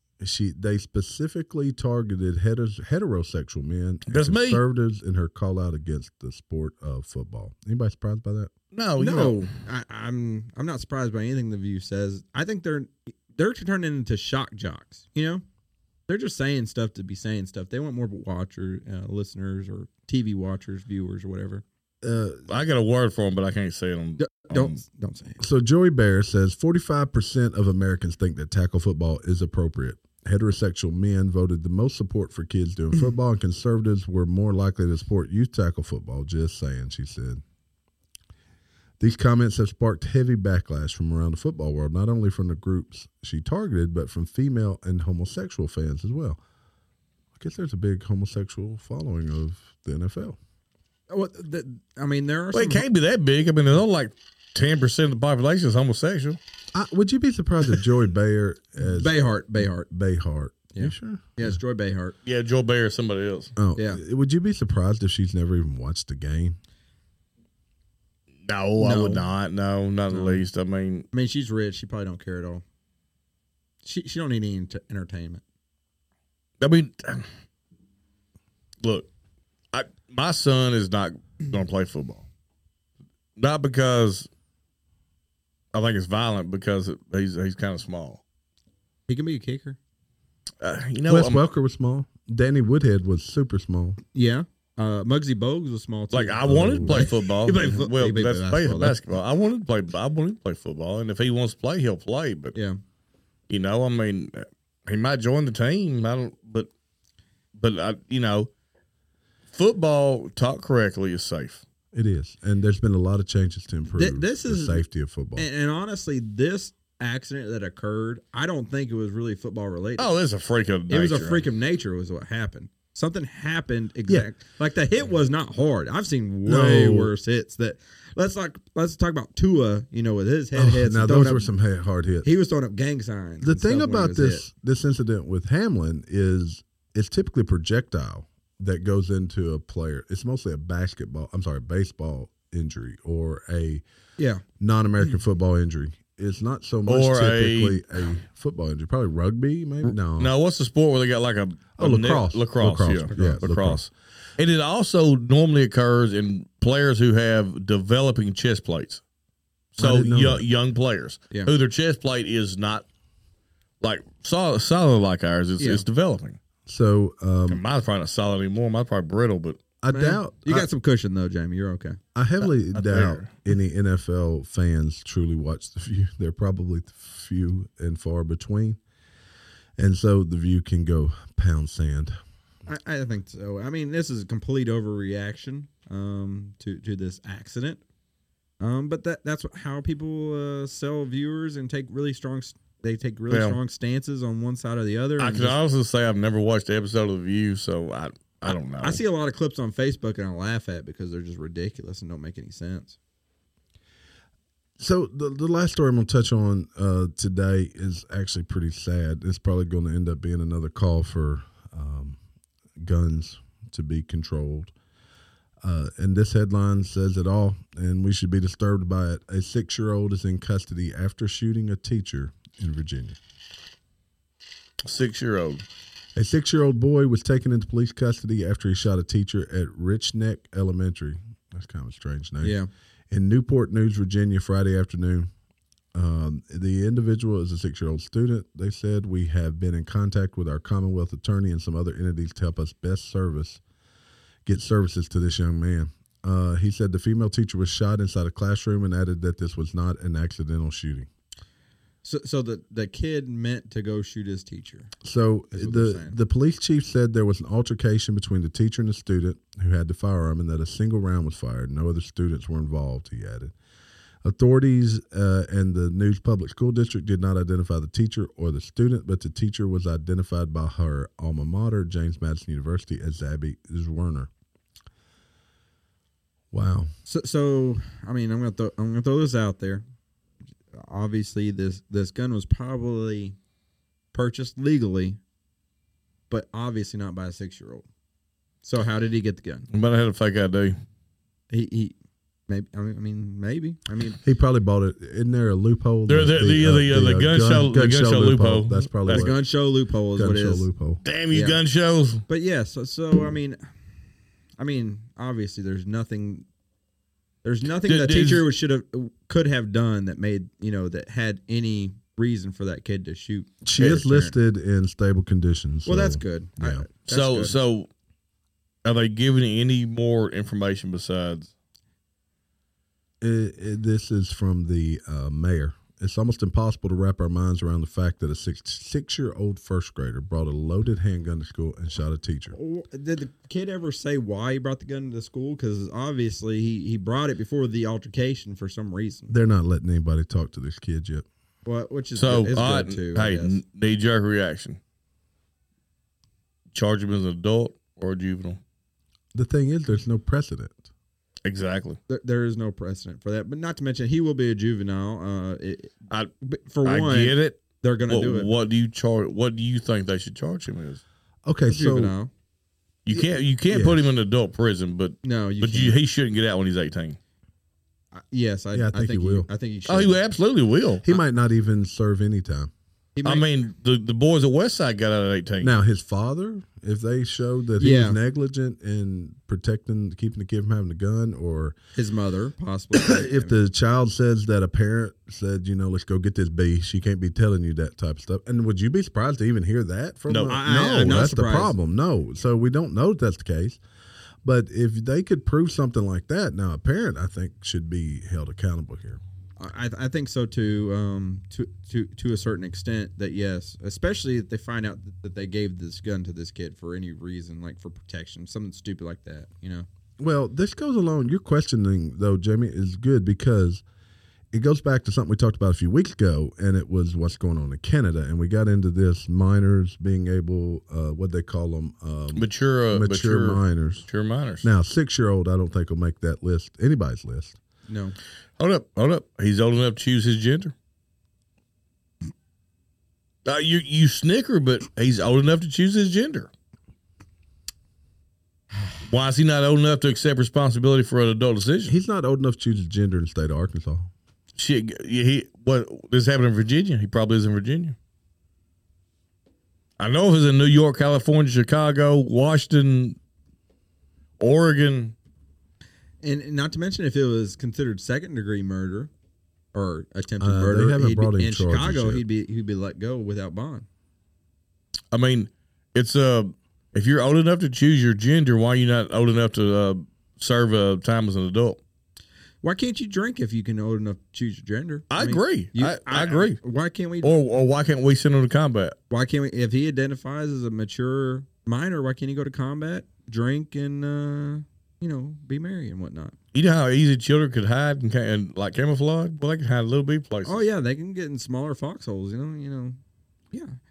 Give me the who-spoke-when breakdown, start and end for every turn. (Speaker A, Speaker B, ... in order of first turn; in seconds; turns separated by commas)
Speaker A: 0.2-8.5, Speaker B: 4.1-4.6, Speaker B: 8.7-9.5, Speaker C: 9.0-15.4, Speaker C: 16.1-21.6, Speaker A: 22.0-22.5, Speaker B: 22.5-24.8, Speaker C: 24.2-25.4, Speaker A: 25.4-37.4, Speaker A: 39.0-46.4, Speaker A: 47.4-50.4, Speaker C: 51.1-52.9, Speaker B: 52.5-56.4, Speaker A: 56.7-61.5, Speaker C: 58.8-59.9, Speaker C: 60.7-62.1, Speaker B: 62.2-63.5, Speaker A: 63.5-66.6, Speaker C: 63.8-64.0, Speaker B: 68.4-71.1, Speaker C: 68.8-69.2, Speaker C: 70.1-70.4, Speaker C: 71.1-72.6, Speaker C: 73.8-75.4, Speaker B: 76.6-77.3, Speaker B: 78.8-79.1, Speaker B: 79.7-82.2, Speaker B: 83.4-84.3, Speaker B: 85.7-88.2, Speaker C: 89.1-89.8, Speaker B: 90.6-91.4, Speaker A: 91.0-94.0, Speaker C: 94.1-99.0, Speaker B: 96.1-102.5, Speaker A: 96.5-97.0, Speaker B: 103.5-106.7, Speaker B: 107.5-108.5, Speaker B: 109.5-111.6, Speaker A: 111.9-115.5, Speaker C: 114.0-114.8, Speaker C: 115.3-120.1, Speaker B: 120.0-121.5, Speaker C: 120.9-131.5, Speaker A: 126.4-127.1, Speaker A: 130.5-132.3, Speaker C: 132.2-134.4, Speaker A: 133.4-143.8, Speaker C: 144.2-144.4, Speaker A: 144.6-150.3, Speaker B: 146.9-147.8, Speaker B: 150.2-159.0, Speaker A: 151.8-153.8, Speaker C: 153.1-153.4, Speaker B: 159.8-162.8, Speaker A: 159.8-160.4, Speaker B: 163.8-166.4, Speaker C: 165.6-165.8, Speaker A: 166.7-167.6, Speaker B: 167.5-169.6, Speaker A: 169.8-170.7, Speaker C: 169.9-172.0, Speaker A: 172.1-178.8, Speaker B: 172.7-173.3, Speaker A: 179.8-182.2, Speaker C: 182.7-187.8, Speaker C: 188.6-195.6, Speaker B: 193.3-193.6, Speaker B: 195.2-199.0, Speaker C: 198.5-202.9, Speaker A: 204.8-212.2, Speaker A: 212.8-214.7, Speaker A: 215.6-223.2, Speaker B: 224.8-225.6, Speaker A: 226.1-232.5, Speaker C: 232.4-232.7, Speaker A: 233.1-235.3, Speaker A: 235.9-243.6, Speaker A: 244.4-251.1, Speaker C: 252.0-254.9, Speaker A: 255.0-263.5, Speaker C: 255.5-256.2, Speaker A: 264.2-274.3, Speaker A: 276.5-276.9, Speaker C: 277.1-279.8, Speaker C: 280.7-283.4, Speaker C: 284.1-285.2, Speaker C: 286.3-287.9, Speaker C: 288.6-289.7, Speaker B: 289.7-290.8, Speaker C: 291.5-291.9, Speaker C: 292.5-294.2, Speaker A: 294.2-299.4, Speaker B: 296.1-299.3, Speaker C: 299.1-300.7, Speaker A: 300.1-301.0, Speaker B: 301.0-302.2, Speaker C: 301.3-301.6, Speaker C: 302.3-303.6, Speaker C: 304.6-306.4, Speaker C: 307.4-314.3, Speaker B: 307.8-308.4, Speaker A: 313.6-316.9, Speaker C: 315.9-317.6, Speaker B: 317.1-317.9, Speaker B: 318.8-321.5, Speaker A: 323.2-332.5, Speaker C: 332.5-339.3, Speaker A: 339.3-341.2, Speaker C: 341.6-343.6, Speaker B: 342.1-344.8, Speaker B: 346.7-348.6, Speaker A: 349.3-350.8, Speaker B: 351.4-352.0, Speaker C: 352.1-358.5, Speaker B: 356.8-361.0, Speaker A: 361.4-362.1, Speaker C: 361.7-362.3, Speaker B: 363.1-367.2, Speaker A: 363.7-364.1, Speaker C: 365.2-366.0, Speaker C: 368.1-370.2, Speaker A: 368.7-369.5, Speaker B: 369.9-371.0, Speaker A: 371.0-372.7, Speaker C: 373.1-373.4, Speaker B: 373.2-375.7, Speaker A: 375.6-381.8, Speaker C: 377.8-378.2, Speaker C: 381.9-383.6, Speaker A: 382.9-393.8, Speaker B: 390.3-390.6, Speaker C: 390.4-391.7, Speaker A: 394.4-399.2, Speaker C: 399.6-409.9, Speaker A: 410.2-413.8, Speaker A: 414.5-424.1, Speaker B: 422.3-424.7, Speaker A: 424.6-427.6, Speaker C: 427.9-428.1, Speaker B: 428.6-430.7, Speaker B: 433.4-436.5, Speaker B: 439.0-441.9, Speaker A: 441.9-444.1, Speaker B: 444.6-447.9, Speaker B: 450.0-453.2, Speaker B: 454.4-455.1, Speaker C: 456.2-459.1, Speaker C: 459.7-463.9, Speaker A: 460.4-462.2, Speaker B: 465.1-471.8, Speaker C: 472.6-477.3, Speaker B: 475.1-476.6, Speaker B: 477.2-479.0, Speaker C: 479.1-486.3, Speaker B: 486.5-490.6, Speaker C: 490.4-493.0